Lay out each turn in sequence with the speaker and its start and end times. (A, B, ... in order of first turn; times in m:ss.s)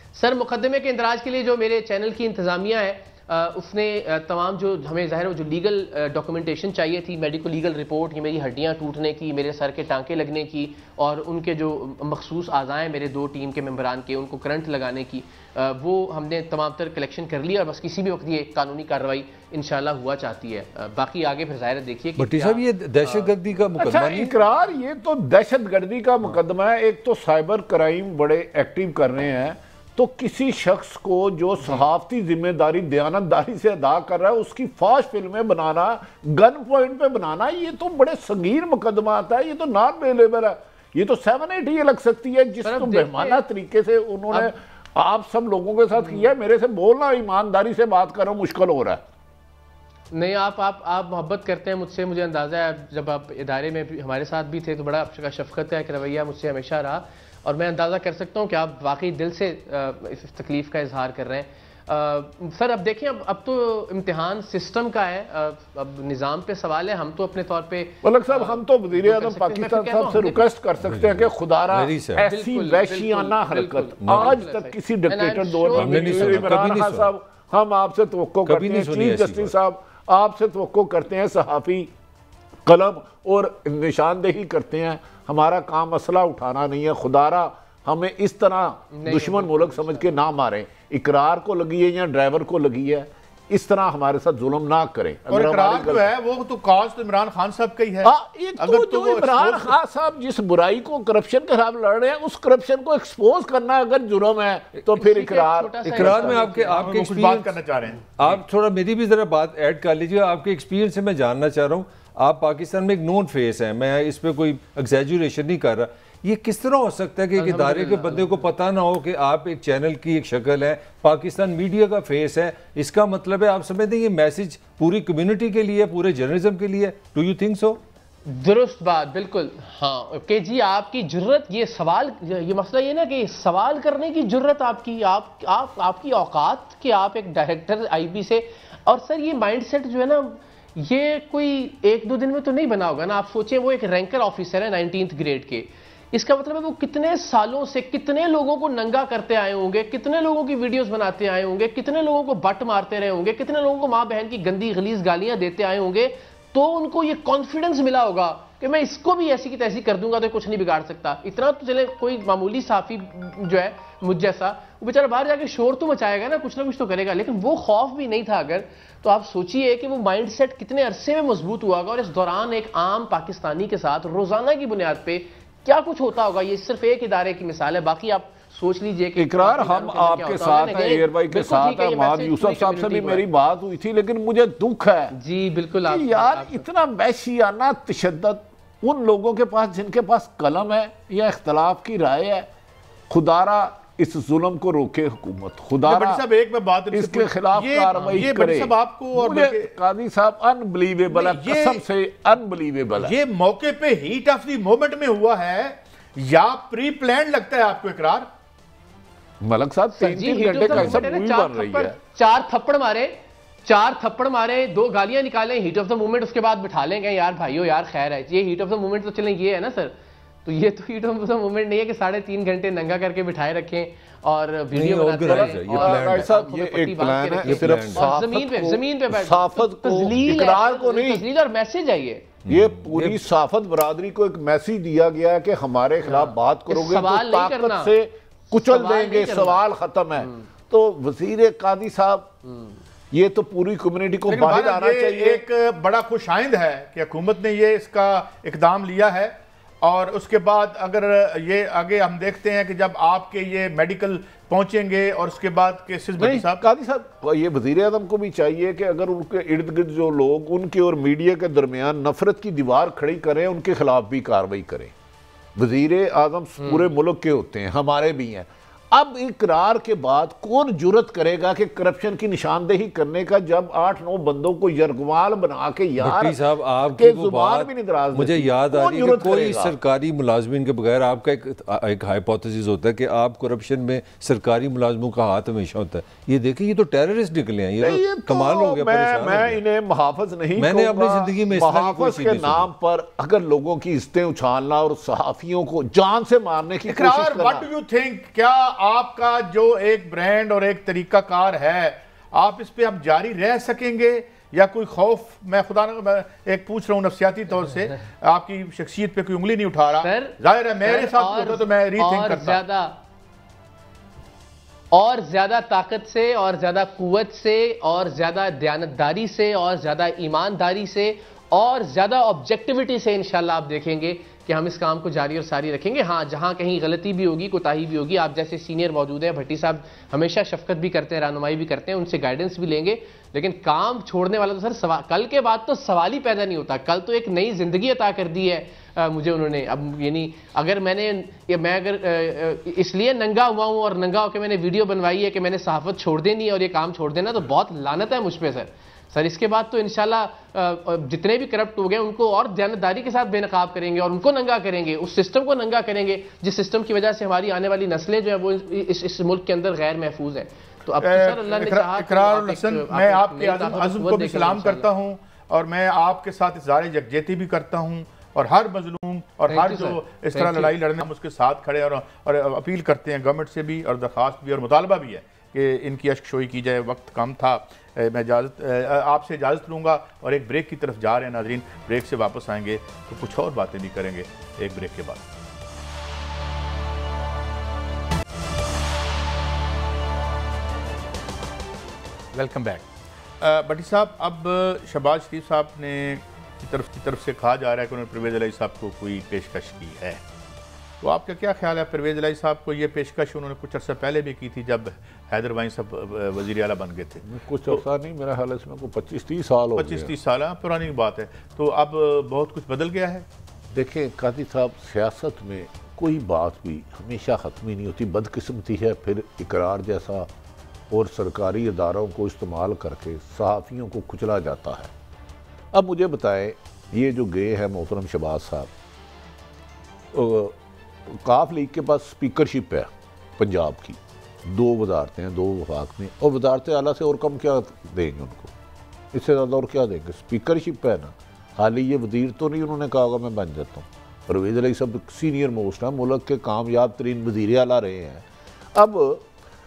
0:00.2-0:23.3 A
0:22.2-0:24.3 B
0:23.8-0:49.0 C
0:42.6-0:43.4 A
0:46.0-0:46.3 A
0:50.1-1:10.4 A
1:08.0-1:21.9 C
1:10.8-1:12.2 B
1:12.2-1:16.6 A
1:14.0-1:14.4 B
1:15.7-1:17.1 B
1:18.4-1:19.5 B
1:22.6-1:36.1 C
1:28.9-1:30.2 A
1:35.3-1:39.7 D
1:38.0-1:46.5 C
1:45.0-1:46.8 A
1:45.9-1:47.6 B
1:46.7-1:48.4 D
1:48.1-2:07.8 B
1:57.4-1:58.5 A
2:08.3-3:03.2 A
2:59.2-3:05.1 C
3:05.1-3:06.6 A
3:05.9-3:12.5 C
3:13.1-3:16.2 C
3:15.8-3:19.7 D
3:16.9-3:23.1 C
3:17.9-3:18.2 A
3:21.1-3:21.8 D
3:23.0-3:28.3 D
3:29.4-3:32.0 C
3:29.9-3:52.3 A
3:44.7-3:46.3 B
3:45.2-3:51.2 C
3:47.4-3:48.2 B
3:52.5-3:53.2 B
3:52.5-4:02.3 C
3:56.0-3:57.9 A
3:58.5-3:59.6 A
4:00.2-4:00.4 A
4:02.4-4:02.7 A
4:03.1-4:05.4 C
4:04.3-4:16.6 D
4:16.2-4:24.9 C
4:25.5-4:36.4 C
4:26.6-4:26.9 A
4:36.0-4:49.6 B
4:36.9-4:39.8 C
4:47.8-4:57.7 C
4:50.6-4:52.7 B
4:56.9-5:12.6 D
5:10.0-5:13.0 A
5:14.9-6:04.9 A
6:01.0-6:25.2 D
6:09.5-6:10.7 A
6:32.3-6:32.8 D
6:33.4-6:40.2 D
6:41.0-6:47.8 D
6:47.2-6:50.1 C
6:49.8-6:53.2 D
6:53.7-7:00.3 C
7:00.9-7:04.9 C
7:05.7-7:08.7 C
7:10.1-7:18.5 C
7:19.1-7:29.2 C